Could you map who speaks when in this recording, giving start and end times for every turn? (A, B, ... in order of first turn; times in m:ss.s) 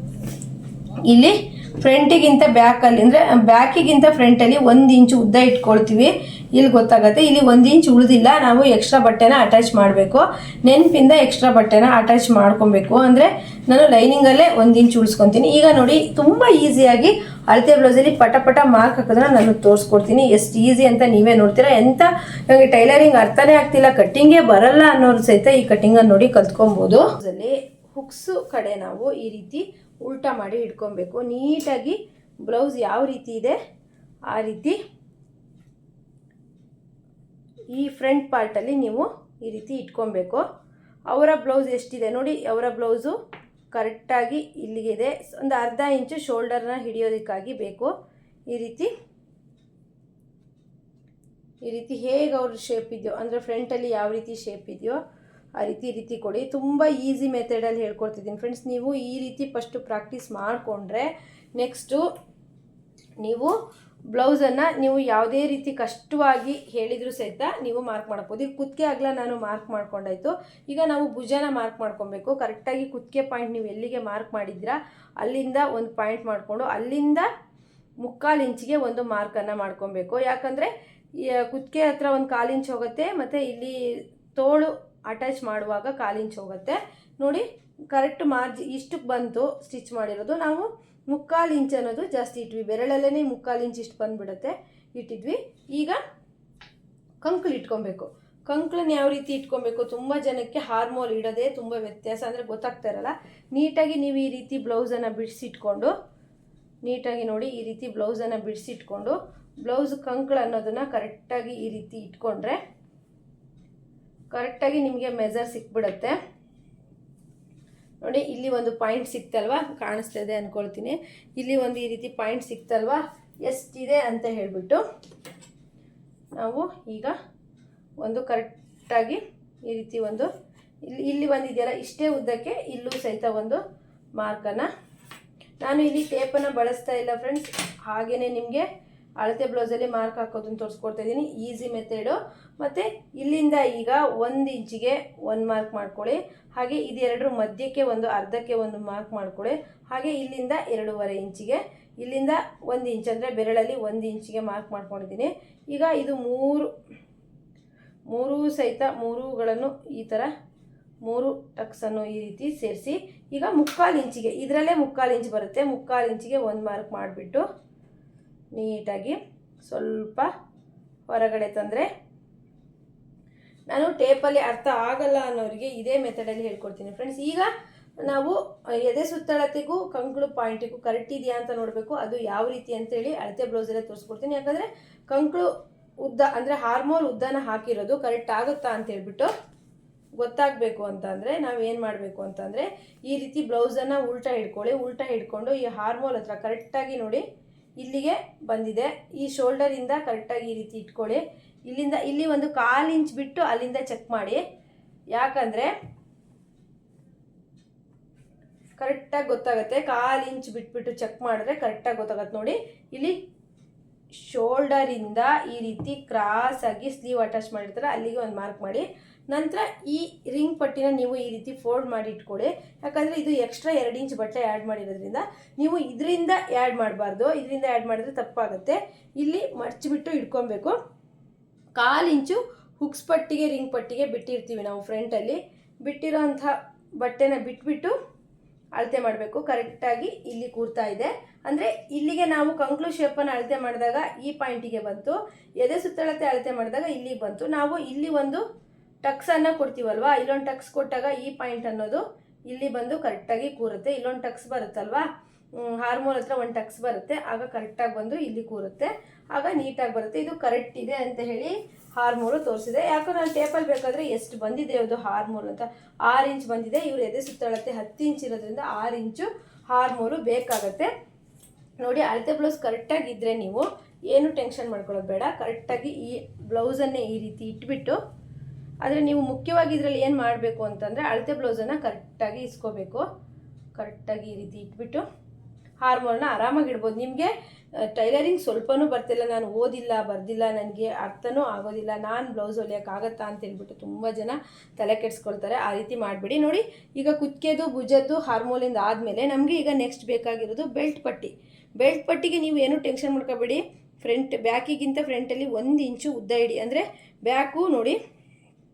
0:01.1-0:33.6 A
0:34.3-0:34.8 A
0:37.7-0:40.4 A
0:41.1-0:43.2 A
0:43.7-0:47.9 A
0:48.5-0:48.9 A
0:51.6-0:55.0 A
0:55.6-1:02.0 A
1:03.2-1:03.5 A
1:04.1-1:17.3 A
1:18.0-1:23.8 A
1:24.3-1:36.0 A
1:37.2-1:45.9 A
1:46.8-1:52.6 A
1:54.3-1:56.2 A
1:58.0-2:04.8 A
2:06.4-2:07.2 A
2:08.0-2:10.3 A
2:10.8-2:13.6 A
2:14.2-2:14.7 A
2:15.6-2:18.7 A
2:19.2-2:36.7 A
2:38.1-2:40.3 A
2:41.0-2:47.5 A
2:48.5-2:50.3 A
2:51.1-2:51.9 A
2:53.7-2:57.5 A
2:58.0-3:05.5 A
3:06.0-3:09.3 A
3:10.2-3:17.2 A
3:17.8-3:24.4 A
3:25.1-3:25.7 A
3:28.8-3:33.2 A
3:34.2-3:50.8 A
3:51.8-3:58.0 A
3:58.8-4:08.4 A
4:09.0-4:15.1 A
4:15.6-4:30.9 A
4:31.8-4:38.0 A
4:38.8-4:43.1 A
4:43.8-4:45.1 A
4:45.8-5:08.0 A